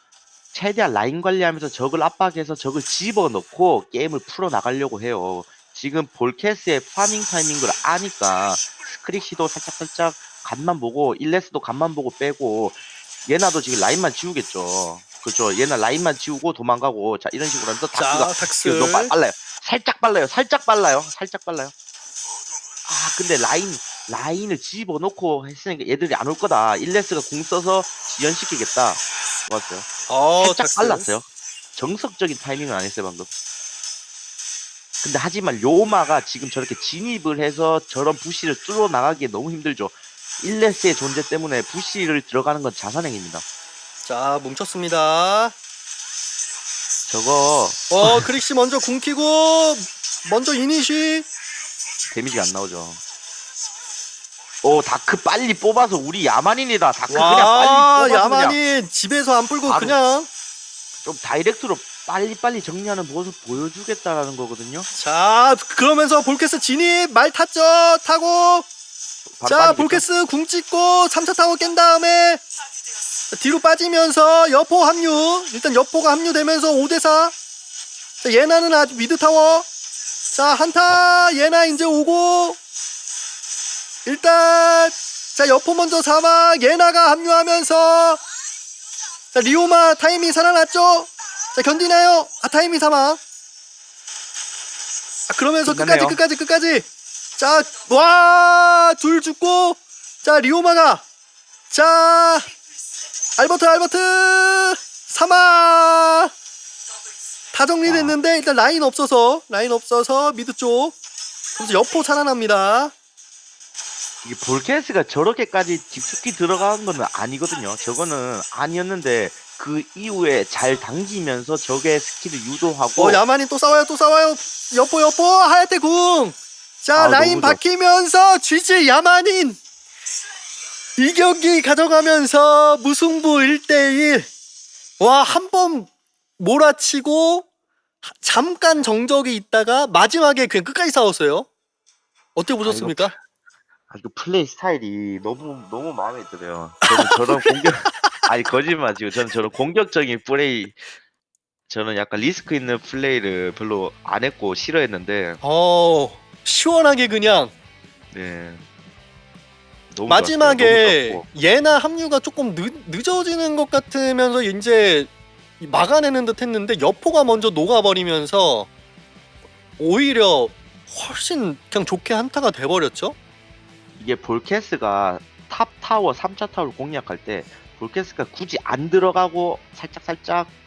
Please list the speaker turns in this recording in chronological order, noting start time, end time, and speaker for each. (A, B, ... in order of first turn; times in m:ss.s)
0:00.5-0:21.7 A
0:17.9-0:19.1 B
0:22.8-0:33.3 A
0:30.1-0:31.0 B
0:35.0-0:43.4 A
0:44.0-0:45.5 B
0:47.1-0:48.3 A
0:47.9-0:51.2 B
0:52.1-0:53.0 A
0:54.6-0:58.6 A
0:57.1-1:00.3 B
0:59.6-1:00.0 A
1:01.0-1:04.9 A
1:04.9-1:08.6 B
1:09.3-1:10.0 A
1:09.5-1:12.4 B
1:13.3-1:17.3 B
1:18.2-1:19.7 B
1:20.3-1:22.6 B
1:24.0-1:28.2 B
1:29.3-1:33.2 B
1:35.3-1:41.0 B
1:35.6-1:36.2 A
1:41.7-1:42.5 B
1:43.4-1:46.3 B
1:47.5-1:50.9 B
1:47.8-1:48.1 A
1:51.6-1:52.9 B
1:54.2-2:03.2 A
2:03.0-2:09.6 B
2:06.9-2:07.6 A
2:11.0-2:14.3 B
2:15.0-2:17.4 B
2:18.0-2:21.5 B
2:22.3-2:23.1 B
2:22.6-2:23.2 A
2:23.9-2:30.8 A
2:26.8-2:28.1 B
2:31.7-2:35.4 A
2:35.4-2:37.5 B
2:38.1-2:38.6 A
2:39.9-2:41.3 A
2:40.1-2:45.1 B
2:45.6-2:48.7 B
2:49.8-2:53.2 B
2:54.0-3:00.5 A